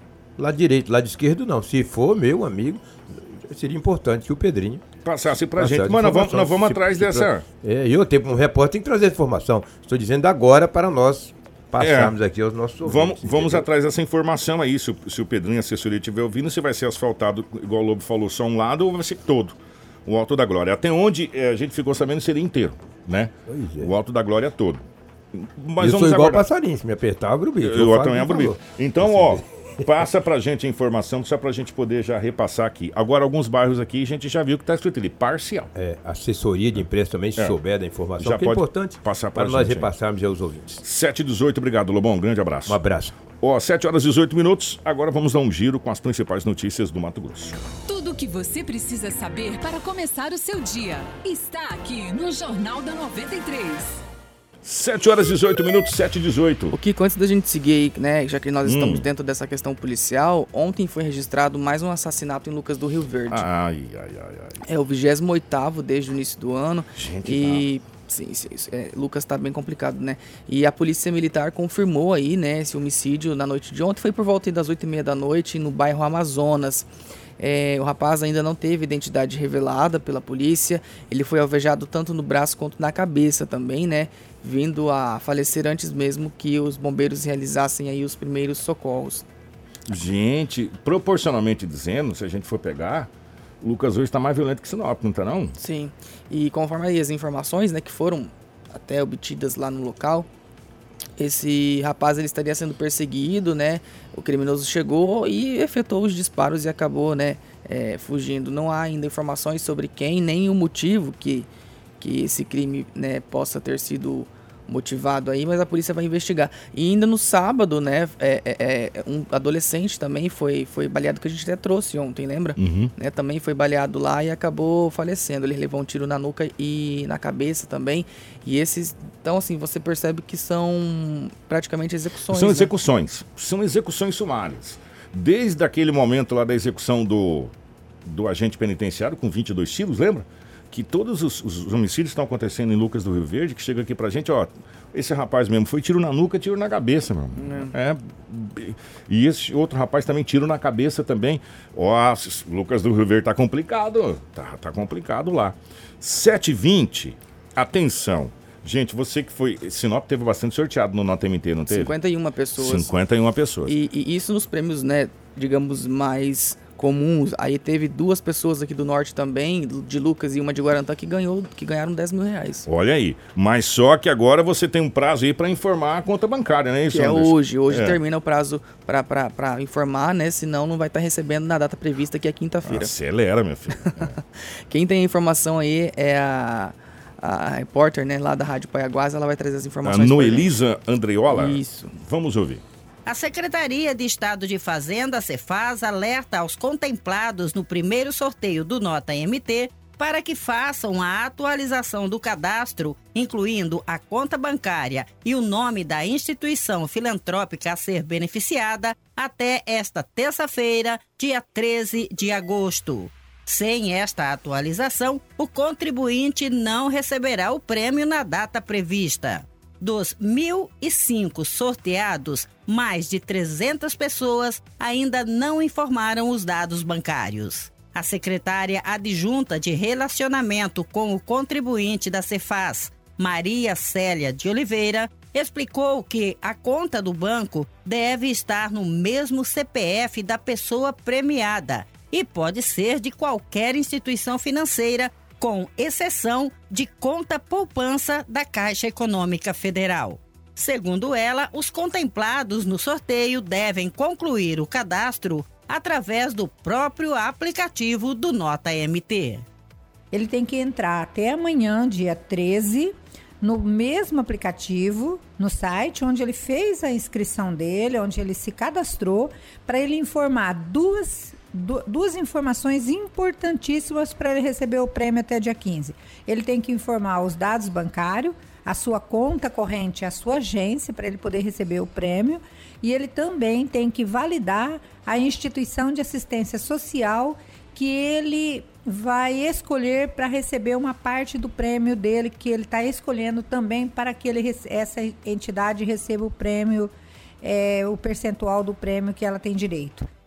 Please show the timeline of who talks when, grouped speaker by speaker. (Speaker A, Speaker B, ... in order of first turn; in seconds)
Speaker A: 0.4-4.8, 5.5-13.7, 23.5-23.9, 25.8-30.1, 35.7-40.8, 42.7-43.2
Speaker B: 5.0-7.4, 11.8-12.1, 12.8-26.4, 27.6-35.7, 38.2-39.9, 40.8-42.8, 43.4-47.6, 54.6-56.7, 58.6-59.0, 63.3-64.6, 67.0-67.6, 89.9-93.1, 93.6-95.5, 122.5-122.9, 132.3-137.5, 138.1-161.9, 162.6-163.7, 172.7-178.0, 182.6-184.2, 189.8-192.6
Speaker C: 47.9-54.0
Speaker D: 56.7-63.4, 64.7-76.9, 77.4-89.2, 95.6-100.3, 101.2-111.5, 112.0-132.7, 147.3-147.7, 161.7-162.9, 163.7-172.7, 176.9-182.9, 184.7-190.5, 191.3-191.9
Speaker E: 193.1-259.4
Speaker F: 260.1-300.1